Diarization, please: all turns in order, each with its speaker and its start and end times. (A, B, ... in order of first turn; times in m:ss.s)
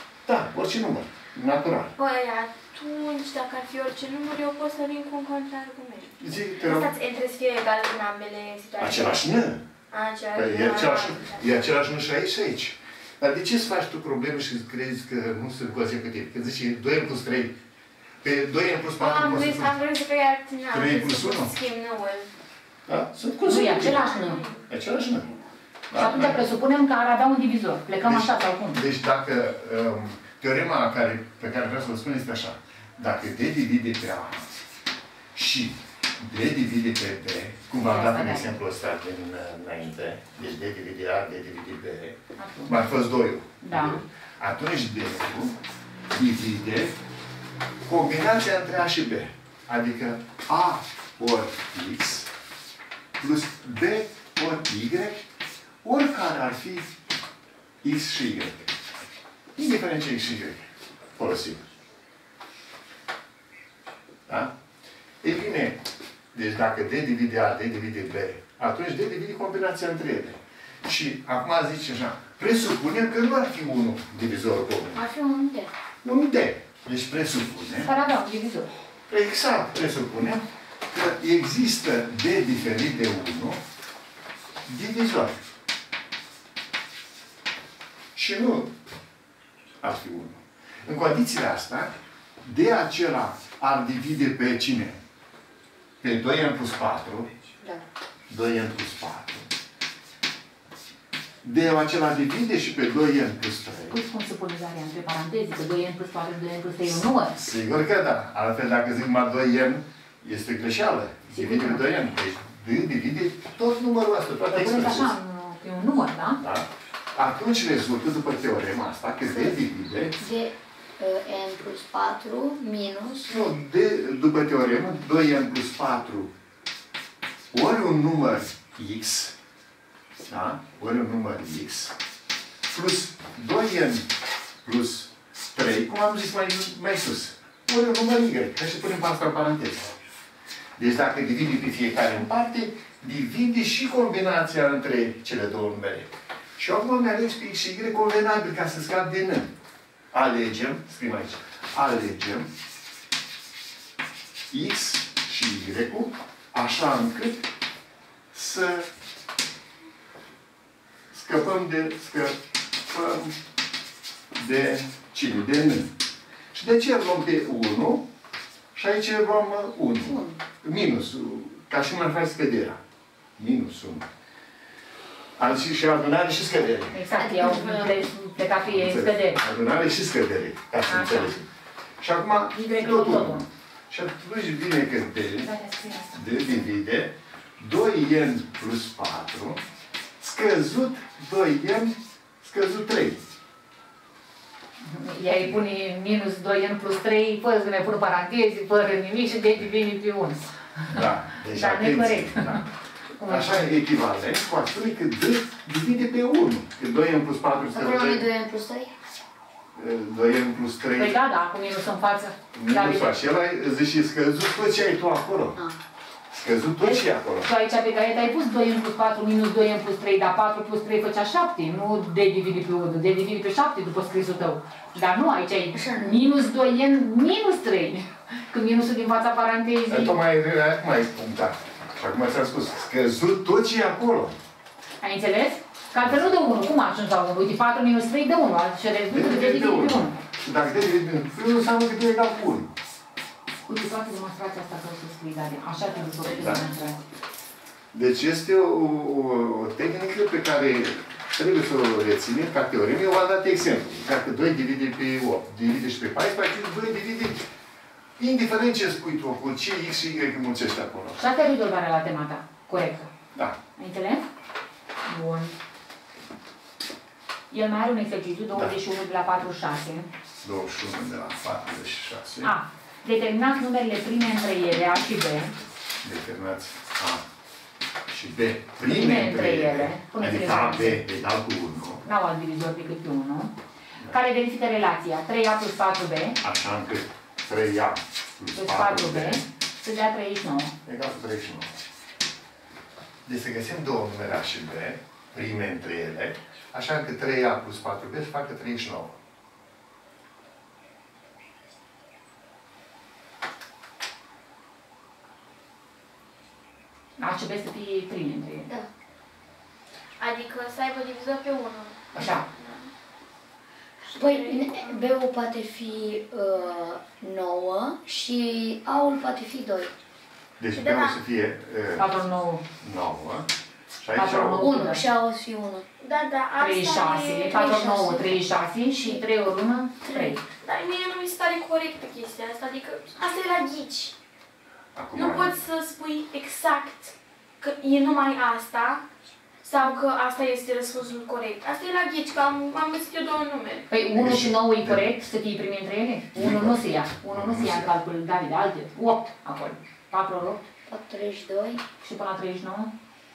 0:00.2-0:01.9 A
0:02.0-0:09.3 B
0:06.2-0:06.9 A
0:08.8-0:09.6 A
0:09.9-0:11.7 B
0:10.3-0:17.6 A
0:18.2-0:19.7 A
0:19.0-0:22.3 B
0:20.7-0:21.5 A
0:22.9-0:24.2 A
0:23.4-0:24.4 C
0:23.8-0:24.7 B
0:24.7-0:25.3 A
0:25.9-0:26.5 A
0:25.9-0:28.8 C
0:28.0-0:34.6 A
0:35.3-0:45.6 A
0:37.8-0:38.6 C
0:42.4-0:42.8 C
0:43.6-0:44.0 C
0:46.1-0:47.0 A
0:47.8-0:52.3 A
0:53.2-0:55.3 A
0:55.8-0:56.9 A
0:57.8-0:58.7 A
0:59.6-1:00.6 A
1:01.2-1:01.6 A
1:04.3-1:04.5 A
1:05.2-1:05.8 A
1:06.3-1:15.0 A
1:14.9-1:15.7 D
1:16.0-1:17.9 A
1:17.8-1:18.7 C
1:19.1-1:23.6 A
1:24.7-1:25.4 A
1:28.1-1:28.7 A
1:29.8-1:31.9 A
1:32.4-1:35.0 A
1:36.0-1:37.3 A
1:38.3-1:39.5 A
1:41.4-1:44.0 A
1:43.9-1:47.4 C
1:47.3-1:55.1 A
1:51.3-1:51.8 C
1:54.5-1:56.4 C
1:56.4-2:00.2 A
1:59.3-1:59.6 D
2:00.2-2:03.3 D
2:03.3-2:06.3 A
2:07.5-2:09.4 A
2:10.2-2:12.0 A
2:12.7-2:14.1 A
2:14.6-2:19.9 A
2:20.8-2:29.5 A
2:30.1-2:32.5 A
2:34.5-2:37.5 A
2:38.3-2:38.9 A
2:41.1-2:42.4 A
2:42.9-2:43.4 A
2:44.3-2:45.9 A
2:46.5-2:48.1 A
2:48.7-2:52.8 A
2:50.0-2:50.4 D
2:53.4-2:54.1 A
2:55.4-2:57.0 A
2:56.9-2:59.4 C
2:57.2-2:58.1 D
2:58.6-3:01.5 A
3:00.9-3:01.4 C
3:02.0-3:05.6 A
3:02.5-3:03.5 C
3:05.4-3:06.3 C
3:06.1-3:09.6 A
3:10.2-3:13.2 A
3:14.8-3:22.6 C
3:20.9-3:22.6 A
3:23.2-3:23.7 C
3:23.3-3:28.3 A
3:27.7-3:28.9 D
3:29.8-3:31.2 A
3:31.0-3:33.1 C
3:32.5-3:35.6 A
3:36.3-3:37.5 A
3:37.4-3:50.2 C
3:45.7-3:46.3 D
3:49.9-3:54.4 A
3:55.0-4:00.2 C
3:56.0-3:56.5 A
3:59.1-4:02.7 A
4:03.7-4:07.0 C
4:05.8-4:06.8 B
4:06.4-4:06.6 A
4:07.9-4:17.4 A
4:18.2-4:21.2 A
4:21.2-4:23.1 C
4:23.8-4:24.2 C
4:25.1-4:25.6 C
4:27.5-4:30.1 C
4:28.5-4:28.8 A
4:30.4-4:32.6 A
4:32.4-4:35.6 C
4:36.0-4:37.2 A
4:38.1-4:42.0 A
4:38.8-4:41.0 C
4:42.0-4:43.5 C
4:44.1-4:46.4 C
4:46.4-4:49.4 A
4:48.6-4:50.7 C
4:50.8-4:51.8 A
4:53.2-4:59.2 A
5:07.2-5:08.7 C
5:10.2-5:12.9 B
5:12.2-5:12.4 C
5:14.0-5:15.1 B
5:14.1-5:19.9 D
5:20.6-5:22.1 A
5:20.8-5:21.2 B
5:22.0-5:22.6 C
5:22.8-5:23.5 A
5:24.0-5:24.7 A
5:24.1-5:25.0 C
5:24.5-5:25.9 D
5:26.0-5:27.7 B
5:26.6-5:30.4 C
5:27.4-5:28.3 D
5:28.9-5:29.2 D
5:30.0-5:30.4 D
5:30.5-5:34.2 B
5:35.0-5:35.5 A
5:35.1-5:39.0 B
5:39.6-5:43.9 B
5:43.9-5:50.6 C
5:44.1-5:45.1 A
5:46.4-5:48.0 A
5:50.9-5:51.8 D
5:52.0-5:52.9 C